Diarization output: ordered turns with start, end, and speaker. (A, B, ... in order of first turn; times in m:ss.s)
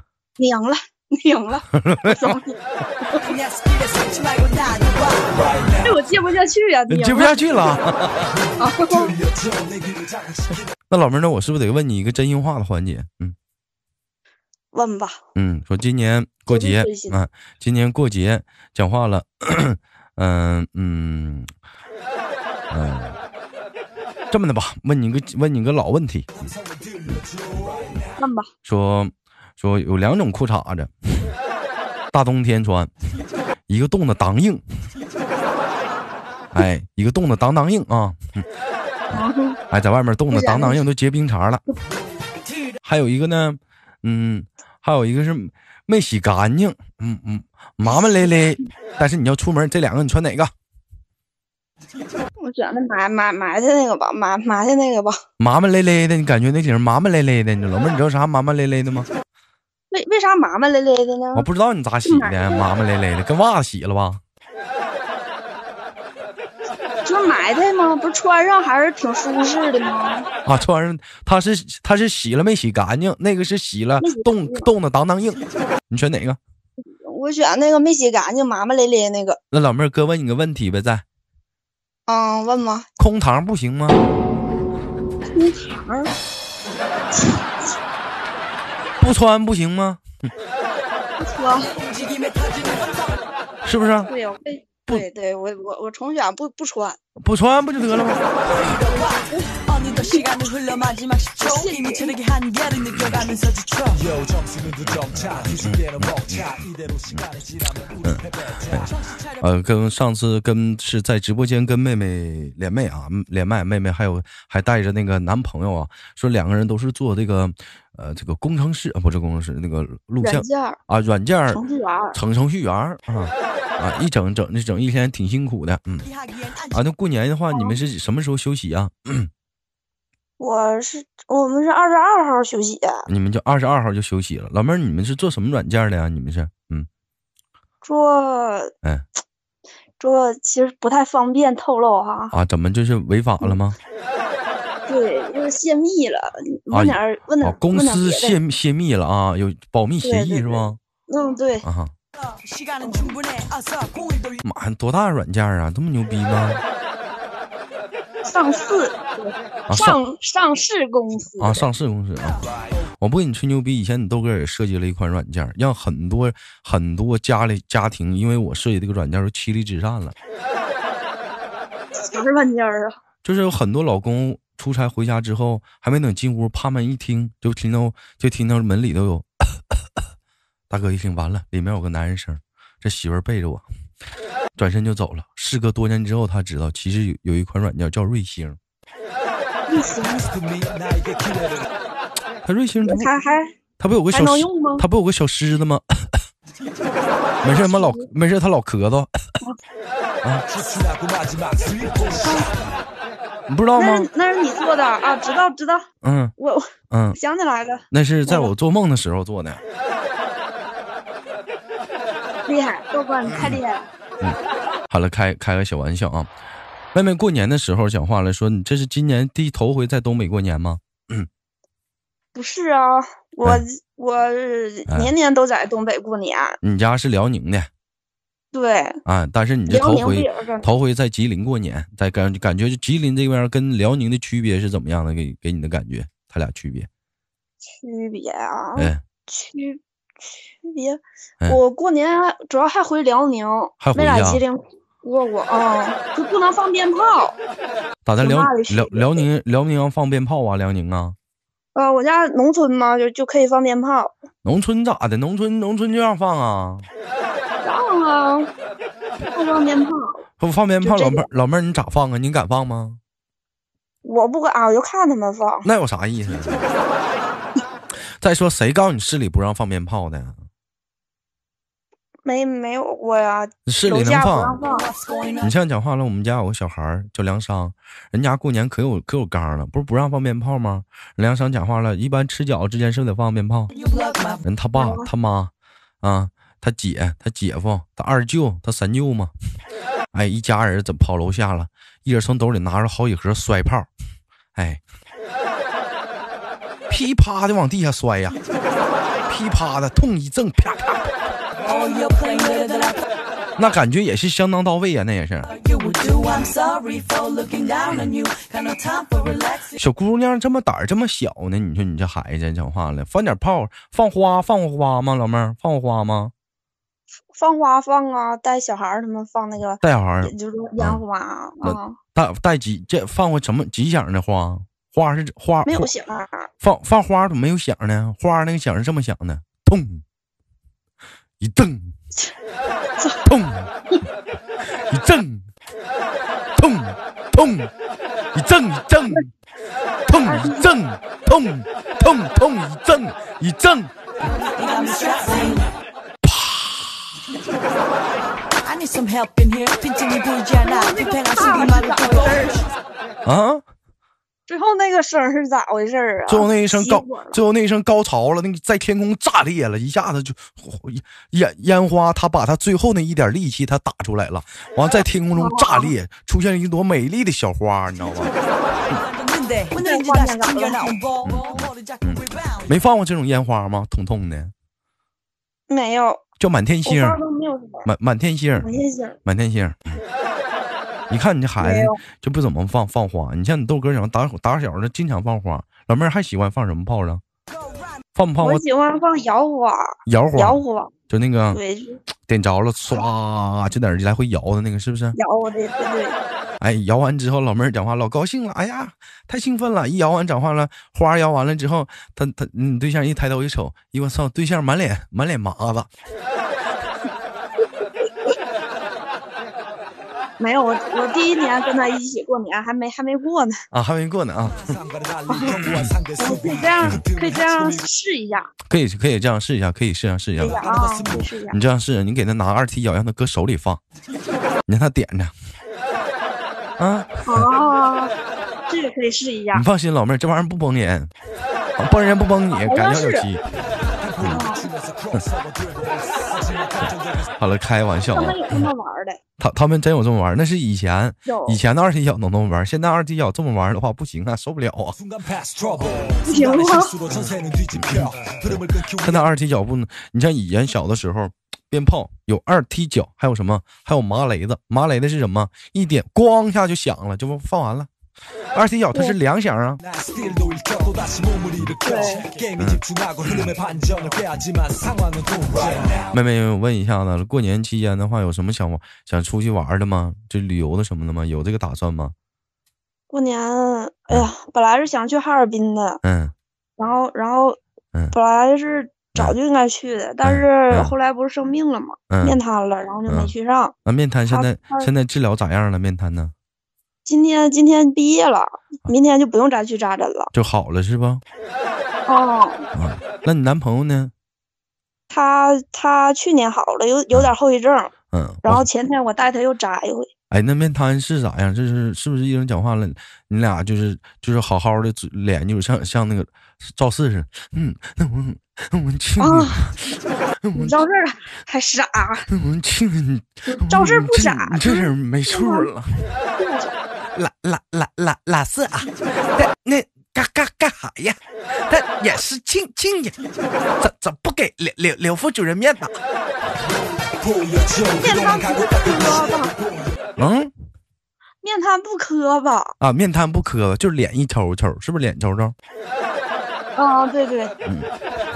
0:00.4-0:03.2 A
0:01.7-0:02.4 B
0:03.1-0:05.4 C
0:05.8-0:07.4 A
0:06.9-0:08.4 B
0:08.6-0:09.2 A
0:09.1-0:10.1 D
0:10.9-0:13.3 B
0:14.7-0:15.2 A
0:15.3-0:21.5 B
0:16.5-0:17.2 A
0:22.7-0:23.2 B
0:24.3-0:26.3 B
0:28.2-0:28.5 A
0:28.6-0:31.3 B
0:32.1-0:32.9 B
0:33.7-0:34.6 B
0:36.5-0:38.4 B
0:39.1-0:39.6 A
0:39.7-0:41.6 B
0:40.3-0:40.8 A
0:42.8-0:50.5 B
0:52.4-0:55.2 A
0:55.4-0:59.1 B
0:59.9-1:01.5 A
1:01.3-1:04.2 B
1:02.0-1:02.7 A
1:07.0-1:10.3 A
1:10.4-1:16.4 B
1:14.0-1:14.7 A
1:16.8-1:19.4 A
1:19.5-1:21.0 B
1:22.1-1:22.8 A
1:23.0-1:24.0 B
1:25.3-1:26.1 A
1:27.1-1:27.5 A
1:29.0-1:30.0 B
1:31.2-1:31.7 A
1:31.8-1:33.1 C
1:33.6-1:34.1 B
1:34.1-1:37.0 A
1:37.2-1:38.8 B
1:38.8-1:44.0 C
1:38.9-1:39.5 A
1:41.4-1:42.1 A
1:42.9-1:43.2 B
1:44.1-1:48.6 D
1:44.8-1:46.5 B
1:48.0-2:01.6 B
1:48.7-1:49.4 C
2:00.2-2:00.8 A
2:01.5-2:02.2 A
2:02.1-2:06.1 B
2:06.0-2:06.8 C
2:06.7-2:09.3 B
2:07.5-2:07.8 A
2:10.4-2:13.0 A
2:13.1-2:16.9 B
2:17.8-2:18.7 A
2:20.0-2:22.3 A
2:22.3-2:23.8 B
2:24.9-2:28.4 A
2:26.7-2:30.8 B
2:30.0-2:31.6 A
2:31.6-2:31.9 B
2:32.2-2:34.4 C
2:34.4-2:36.6 B
2:38.2-2:41.7 A
2:39.7-2:40.0 B
2:41.4-2:42.4 B
2:43.0-2:50.1 B
2:51.9-2:53.0 A
2:53.2-2:59.7 B
3:00.7-3:03.6 B
3:04.6-3:08.6 B
3:09.7-3:10.3 A
3:10.4-3:11.6 D
3:12.4-3:13.1 B
3:12.8-3:13.5 A
3:13.8-3:16.2 B
3:14.1-3:14.9 A
3:17.4-3:19.2 B
3:17.5-3:18.1 A
3:20.6-3:22.3 D
3:22.2-3:22.5 A
3:23.5-3:24.1 B
3:23.8-3:25.8 A
3:26.0-3:26.3 B
3:26.4-3:28.5 A
3:26.9-3:27.2 B
3:27.9-3:29.6 B
3:32.4-3:33.9 A
3:33.2-3:33.6 B
3:34.9-3:36.3 B
3:36.9-3:41.3 B
3:42.3-3:46.6 A
3:44.9-3:45.1 B
3:46.6-3:47.7 B
3:48.5-3:49.0 A
3:49.0-3:56.9 B
3:49.7-3:50.7 A
3:57.8-4:07.4 A
4:03.8-4:04.4 B
4:08.0-4:11.2 B
4:08.2-4:09.3 A
4:11.7-4:14.1 A
4:14.4-4:16.8 B
4:17.6-4:18.5 A
4:19.3-4:20.2 A
4:20.4-4:23.0 B
4:20.8-4:21.3 A
4:24.0-4:25.7 A
4:25.6-4:26.7 B
4:28.2-4:30.4 B
4:32.2-4:34.9 A
4:33.6-4:34.6 B
4:34.7-4:35.5 C
4:35.4-4:43.7 B
4:43.7-4:44.4 C
4:44.4-4:45.5 B
4:44.7-4:45.1 A
4:46.0-4:49.3 B
4:50.1-4:53.9 B
4:54.5-4:54.8 B
4:56.9-4:58.4 B
4:59.3-5:01.2 B
5:01.6-5:03.0 C
5:03.6-5:05.5 B
5:05.4-5:09.8 C
5:09.7-5:16.3 B
5:17.3-5:22.0 A
5:19.8-5:21.0 B
5:21.6-5:25.9 B
5:25.6-5:26.5 A
5:26.6-5:30.0 B
5:31.4-5:31.9 B
5:33.2-5:33.7 B
5:34.9-5:35.5 B
5:36.6-5:37.7 B
5:38.3-5:39.3 B
5:40.1-5:43.9 B
5:40.2-5:40.7 A
5:44.4-5:45.6 C
5:46.2-5:47.0 B
5:48.6-5:52.5 C
5:50.6-5:52.7 A
5:53.2-5:53.6 B
5:54.5-5:57.4 A
5:56.3-6:08.3 B
6:05.3-6:05.9 A
6:08.9-6:12.7 C
6:09.8-6:10.9 A
6:11.2-6:14.5 B
6:15.7-6:16.2 A
6:16.4-6:17.2 B
6:16.8-6:17.9 A
6:17.8-6:18.7 B
6:18.6-6:19.2 A
6:19.2-6:20.0 B
6:21.1-6:27.2 B
6:21.6-6:21.9 A
6:28.2-6:28.6 B
6:28.4-6:30.9 A
6:30.0-6:31.6 B
6:31.5-6:32.0 A
6:32.3-6:35.2 B
6:35.2-6:36.2 A
6:36.6-6:45.9 B
6:50.4-6:53.6 A
6:53.7-6:54.8 B
6:54.7-6:57.4 D
6:55.3-6:55.6 A
6:55.5-6:55.9 B
6:56.2-6:58.5 A
6:58.7-7:00.6 B
7:00.4-7:01.6 A
7:00.6-7:01.0 D
7:01.5-7:03.8 B
7:04.7-7:05.3 B
7:06.8-7:07.5 B
7:07.2-7:08.1 A
7:08.7-7:09.6 A
7:09.5-7:11.1 B
7:11.8-7:13.4 B
7:12.5-7:13.3 A
7:14.2-7:17.2 D
7:14.2-7:14.4 B
7:14.3-7:14.7 A
7:17.4-7:18.7 B
7:18.1-7:19.2 A
7:19.4-7:25.0 B
7:21.2-7:21.6 A
7:25.1-7:29.0 D
7:26.2-7:27.0 A
7:27.1-7:37.9 B
7:38.5-7:39.8 B
7:40.0-7:46.0 D
7:41.8-7:42.3 A
7:42.6-7:43.3 B
7:46.1-7:52.1 B
7:53.1-7:56.0 A
7:56.0-7:56.3 B
7:56.8-7:57.6 A
7:58.1-8:03.7 A
8:00.2-8:00.9 B
8:02.1-8:02.4 B
8:03.1-8:03.3 B
8:03.8-8:06.3 B
8:04.3-8:04.9 A
8:07.0-8:10.3 A
8:10.3-8:11.2 B
8:12.1-8:12.6 A
8:12.7-8:14.1 B
8:15.1-8:17.9 A
8:18.1-8:18.7 B
8:18.4-8:20.1 A
8:20.3-8:30.7 B
8:29.2-8:29.6 A
8:30.5-8:32.3 A
8:32.3-8:36.1 B
8:33.5-8:35.7 A
8:36.4-8:36.7 A
8:37.1-8:43.2 B
8:43.8-8:46.0 B
8:47.3-8:48.0 D
8:47.9-8:49.6 A
8:50.2-8:50.5 B
8:51.4-8:52.7 A
8:52.8-8:55.5 B
8:56.7-8:57.5 A
8:57.6-8:57.9 B